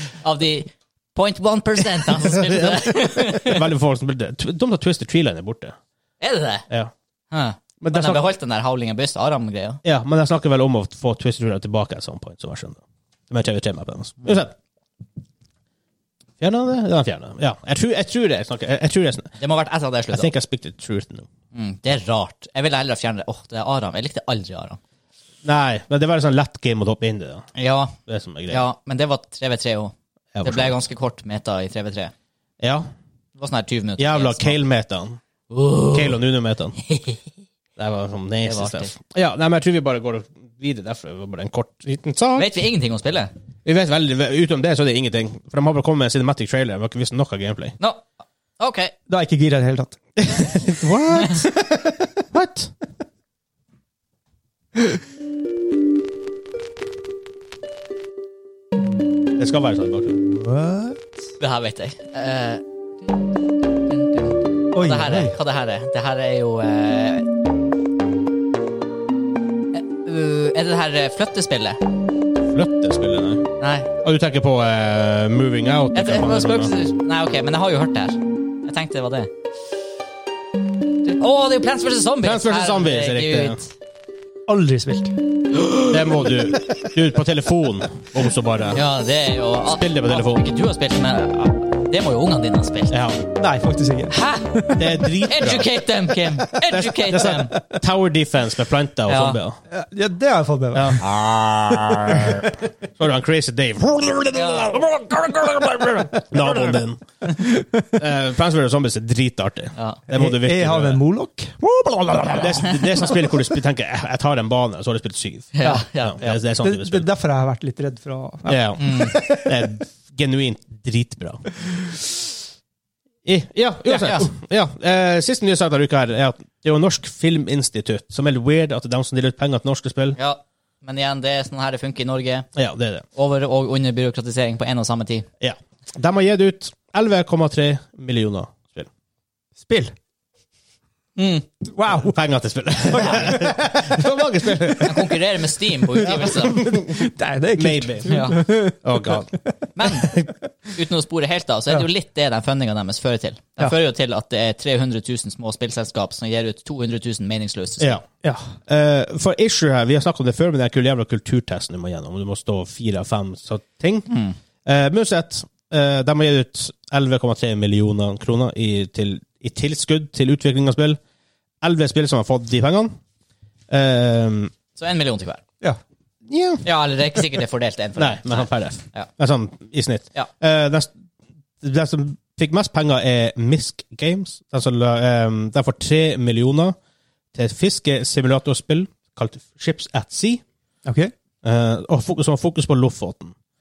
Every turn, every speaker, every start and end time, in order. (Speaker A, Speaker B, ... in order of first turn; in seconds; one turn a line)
Speaker A: 0.2-3.6
Speaker B: 2.4-5.8
Speaker A: 6.2-6.7
Speaker A: 7.3-9.8
Speaker B: 7.8-8.2
Speaker B: 9.8-14.5
Speaker B: 16.4-19.3
Speaker A: 19.4-20.3
Speaker B: 20.1-21.3
Speaker A: 21.5-24.8
Speaker B: 25.4-27.5
Speaker A: 27.6-27.9
Speaker B: 28.1-28.6
Speaker A: 28.5-32.1
Speaker B: 30.3-30.8
Speaker B: 32.6-32.9
Speaker A: 33.4-34.6
Speaker B: 34.0-35.2
Speaker A: 35.5-36.2
Speaker B: 35.9-36.8
Speaker A: 36.8-37.2
Speaker B: 37.8-42.5
Speaker A: 38.4-38.9
Speaker A: 42.4-43.3
Speaker B: 43.6-47.8
Speaker A: 47.8-48.1
Speaker A: 48.6-48.9
Speaker C: 49.1-50.0
Speaker B: 50.2-52.7
Speaker B: 59.4-60.4
Speaker C: 60.4-61.2
Speaker A: 61.4-62.6
Speaker A: 63.9-67.3
Speaker C: 64.7-65.3
Speaker A: 69.7-71.8
Speaker B: 72.5-73.5
Speaker A: 73.6-73.9
Speaker B: 74.0-76.7
Speaker A: 75.9-79.3
Speaker A: 81.1-83.7
Speaker B: 82.2-83.6
Speaker C: 84.5-85.2
Speaker B: 85.9-88.8
Speaker A: 88.7-92.9
Speaker B: 89.7-90.4
Speaker B: 92.9-93.3
Speaker C: 93.4-95.1
Speaker A: 94.1-97.6
Speaker B: 94.8-95.8
Speaker B: 96.7-99.6
Speaker A: 99.1-99.4
Speaker C: 99.7-101.0
Speaker B: 100.7-107.0
Speaker C: 101.9-102.5
Speaker A: 104.3-104.7
Speaker C: 105.8-107.9
Speaker B: 108.0-111.0
Speaker A: 109.8-110.0
Speaker C: 110.1-112.7
Speaker B: 112.1-117.1
Speaker A: 115.6-116.3
Speaker C: 116.6-119.4
Speaker B: 118.5-121.5
Speaker A: 118.8-119.2
Speaker B: 123.2-130.2
Speaker A: 123.9-124.3
Speaker A: 130.2-132.5
Speaker B: 132.6-133.1
Speaker A: 133.1-135.3
Speaker B: 135.4-138.9
Speaker C: 139.6-139.9
Speaker A: 141.2-141.4
Speaker C: 141.7-142.2
Speaker B: 141.9-145.1
Speaker C: 142.9-144.9
Speaker A: 144.8-146.6
Speaker C: 145.9-149.5
Speaker B: 146.0-148.1
Speaker A: 148.1-148.4
Speaker B: 148.8-149.4
Speaker A: 149.8-150.1
Speaker A: 150.7-158.0
Speaker C: 158.2-158.5
Speaker B: 158.7-164.1
Speaker A: 164.1-164.4
Speaker B: 164.6-171.0
Speaker B: 171.6-172.9
Speaker B: 173.7-174.5
Speaker A: 174.8-175.4
Speaker B: 176.3-176.7
Speaker A: 176.6-179.1
Speaker B: 178.0-180.9
Speaker B: 181.6-186.8
Speaker B: 187.3-190.4
Speaker C: 190.8-191.1
Speaker B: 191.4-193.3